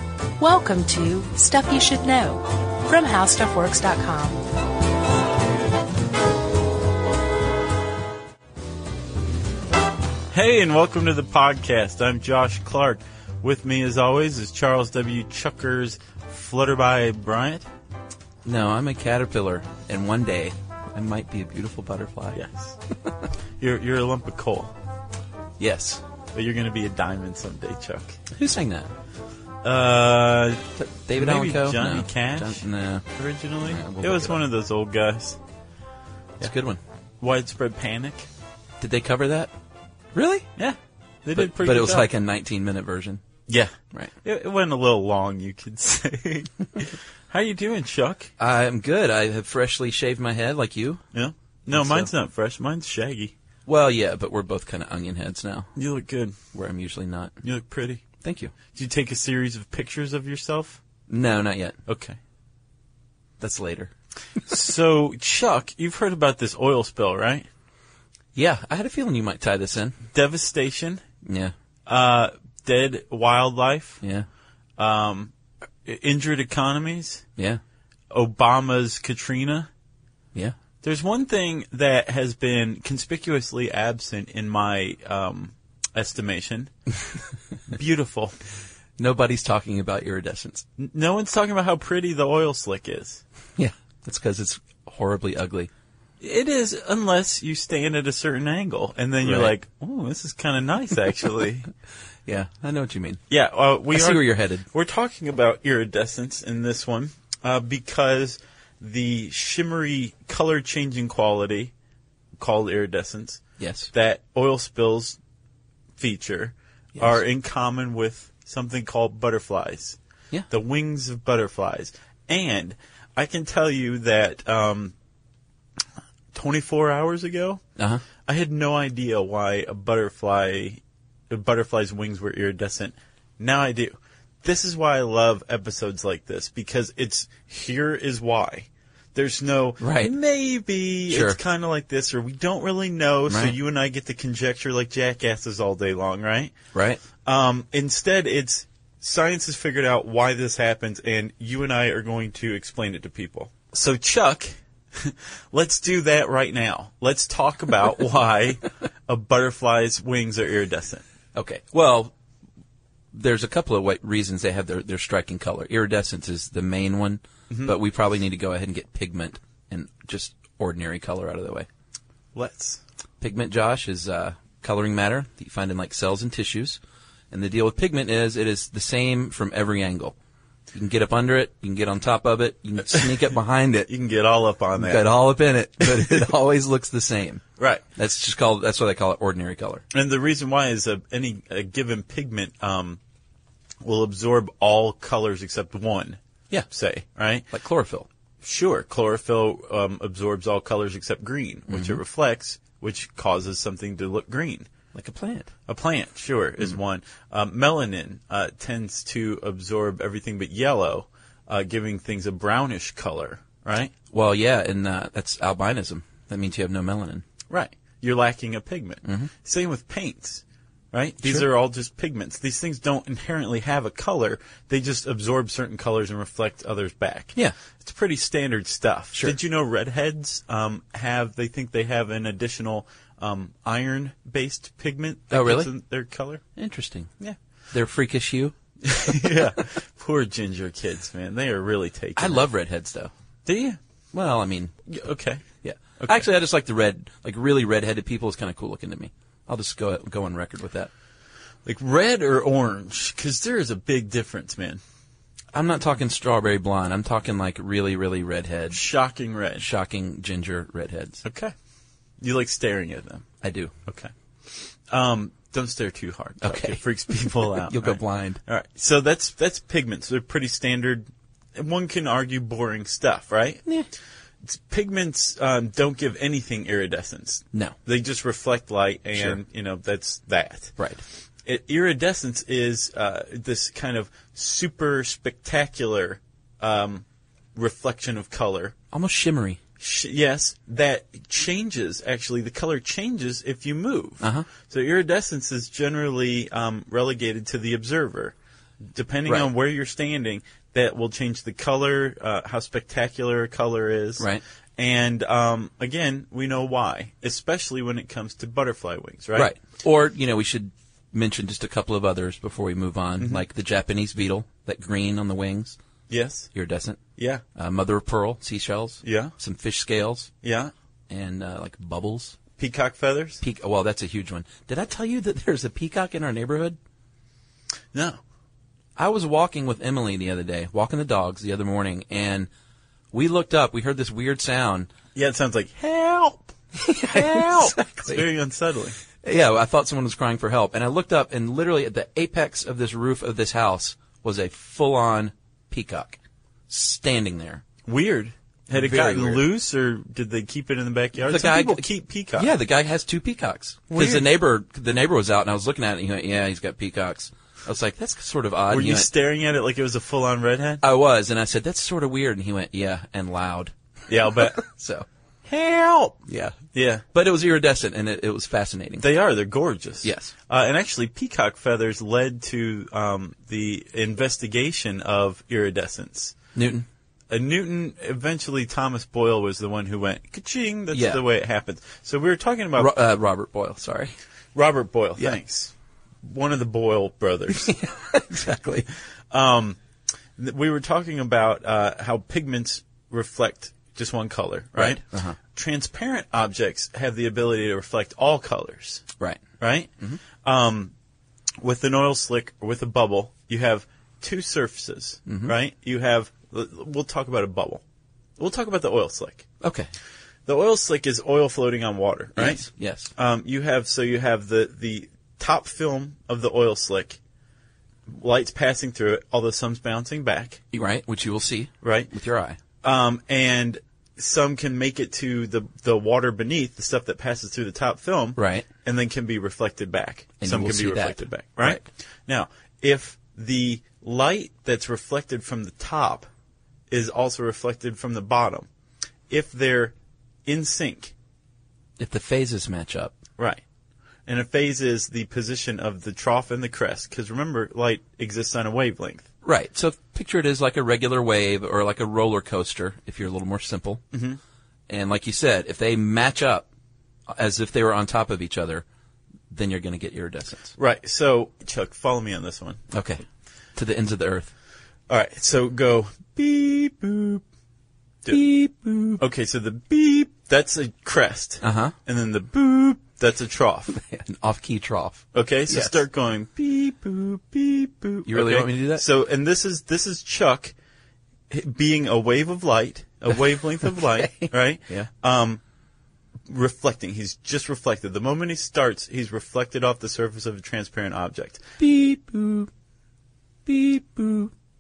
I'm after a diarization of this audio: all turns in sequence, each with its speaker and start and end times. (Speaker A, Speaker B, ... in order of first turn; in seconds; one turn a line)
Speaker A: 0.4-4.4
Speaker B: 10.3-17.7
Speaker C: 18.4-22.4
Speaker B: 22.3-22.8
Speaker B: 23.6-24.7
Speaker C: 25.6-26.0
Speaker B: 26.3-28.2
Speaker C: 28.3-28.9
Speaker B: 29.6-35.4
Speaker C: 30.8-33.0
Speaker C: 33.6-34.4
Speaker C: 36.4-36.8
Speaker B: 37.2-38.3
Speaker C: 38.8-39.5
Speaker C: 40.1-40.5
Speaker B: 40.5-42.1
Speaker C: 41.4-43.2
Speaker B: 43.5-48.3
Speaker C: 48.4-51.0
Speaker B: 51.1-53.3
Speaker C: 51.7-52.1
Speaker C: 53.6-55.7
Speaker B: 55.8-56.4
Speaker C: 56.5-57.4
Speaker B: 57.4-58.0
Speaker C: 58.2-58.5
Speaker B: 58.7-60.8
Speaker C: 61.1-61.8
Speaker B: 61.9-62.2
Speaker C: 63.4-63.9
Speaker B: 64.5-67.5
Speaker C: 68.3-70.0
Speaker B: 70.1-71.0
Speaker C: 71.2-71.5
Speaker B: 71.9-74.0
Speaker C: 74.0-74.3
Speaker B: 74.8-75.3
Speaker B: 75.8-77.2
Speaker B: 78.1-79.7
Speaker B: 80.8-86.7
Speaker B: 87.7-88.3
Speaker C: 89.0-90.6
Speaker B: 90.8-93.2
Speaker C: 93.6-95.7
Speaker B: 96.2-101.7
Speaker C: 99.2-99.5
Speaker C: 102.2-103.2
Speaker B: 103.3-111.7
Speaker C: 103.9-104.7
Speaker B: 112.4-115.2
Speaker C: 113.6-113.9
Speaker B: 116.0-120.0
Speaker B: 120.5-124.9
Speaker B: 126.3-127.6
Speaker C: 127.8-128.0
Speaker B: 128.2-146.6
Speaker C: 139.8-140.1
Speaker C: 141.1-141.4
Speaker C: 143.3-143.5
Speaker C: 146.7-147.0
Speaker B: 147.2-161.0
Speaker C: 161.3-162.1
Speaker C: 163.1-171.7
Speaker B: 167.5-167.7
Speaker B: 172.3-172.8
Speaker C: 173.2-176.8
Speaker C: 177.3-180.2
Speaker C: 180.7-183.9
Speaker B: 183.9-185.1
Speaker C: 184.8-187.4
Speaker B: 185.8-186.3
Speaker B: 187.6-187.8
Speaker C: 187.9-189.8
Speaker B: 189.9-193.0
Speaker B: 193.8-197.5
Speaker C: 197.5-198.1
Speaker B: 198.4-204.7
Speaker C: 201.7-202.0
Speaker C: 204.9-205.5
Speaker B: 205.7-213.9
Speaker C: 214.1-217.2
Speaker B: 217.5-236.4
Speaker C: 219.0-219.3
Speaker C: 235.3-235.7
Speaker C: 236.6-237.1
Speaker C: 237.7-238.6
Speaker B: 238.8-242.4
Speaker C: 242.2-243.1
Speaker B: 243.4-243.8
Speaker C: 244.1-244.7
Speaker B: 244.9-245.4
Speaker C: 245.6-250.9
Speaker B: 246.0-246.3
Speaker B: 251.6-254.8
Speaker C: 255.5-258.8
Speaker B: 258.7-259.7
Speaker C: 259.6-261.2
Speaker B: 261.2-261.5
Speaker B: 262.2-263.2
Speaker C: 263.4-263.7
Speaker B: 263.9-273.6
Speaker C: 266.4-268.4
Speaker B: 274.4-280.8
Speaker C: 280.8-281.0
Speaker B: 281.4-288.7
Speaker C: 288.9-289.6
Speaker B: 289.8-298.3
Speaker C: 294.2-294.5
Speaker B: 298.9-309.5
Speaker C: 309.4-315.8
Speaker B: 316.1-316.5
Speaker C: 316.5-317.0
Speaker B: 317.2-317.4
Speaker C: 317.6-320.3
Speaker B: 319.0-319.3
Speaker B: 320.4-320.7
Speaker C: 321.1-322.4
Speaker B: 322.6-323.4
Speaker C: 323.4-326.8
Speaker B: 327.9-328.2
Speaker C: 328.9-332.5
Speaker C: 333.1-334.9
Speaker B: 335.1-336.5
Speaker C: 336.7-338.3
Speaker B: 337.1-338.9
Speaker C: 339.2-346.2
Speaker C: 346.7-347.6
Speaker B: 347.9-352.5
Speaker C: 348.7-349.4
Speaker C: 351.2-351.8
Speaker C: 352.4-359.1
Speaker B: 353.9-354.3
Speaker B: 358.7-360.8
Speaker C: 360.8-363.7
Speaker B: 364.1-364.6
Speaker C: 364.3-365.1
Speaker B: 365.4-367.0
Speaker C: 366.3-366.6
Speaker C: 367.1-369.1
Speaker B: 369.0-376.3
Speaker C: 370.0-370.3
Speaker C: 376.5-376.9
Speaker B: 377.3-382.9
Speaker C: 380.9-381.2
Speaker C: 382.8-384.1
Speaker B: 384.5-387.7
Speaker C: 387.5-388.9
Speaker B: 389.3-389.8
Speaker B: 390.4-399.0
Speaker C: 394.8-395.4
Speaker B: 399.6-400.9
Speaker B: 401.6-407.8
Speaker C: 405.3-405.5
Speaker B: 408.4-409.5
Speaker C: 409.6-409.9
Speaker B: 410.4-412.6
Speaker C: 412.4-413.1
Speaker B: 413.1-417.2
Speaker B: 418.1-420.6
Speaker C: 420.7-422.6
Speaker B: 421.8-422.1
Speaker B: 422.8-436.3
Speaker C: 428.4-428.6
Speaker C: 430.4-431.8
Speaker B: 436.9-438.7
Speaker B: 439.3-439.9
Speaker B: 440.4-441.1
Speaker C: 442.0-443.1
Speaker B: 443.4-443.6
Speaker B: 444.2-449.3
Speaker C: 449.4-454.0
Speaker B: 454.1-454.4
Speaker C: 454.9-456.6
Speaker C: 457.3-458.8
Speaker C: 459.5-460.7
Speaker B: 460.8-462.8
Speaker C: 462.9-463.2
Speaker C: 463.7-464.5
Speaker B: 465.1-467.4
Speaker C: 468.3-469.2
Speaker B: 469.2-473.9
Speaker C: 471.6-471.9
Speaker C: 473.9-476.0
Speaker B: 475.3-480.7
Speaker C: 478.3-479.0
Speaker B: 481.5-485.6
Speaker C: 483.8-485.1
Speaker B: 486.4-491.6
Speaker C: 491.8-492.7
Speaker C: 493.6-494.5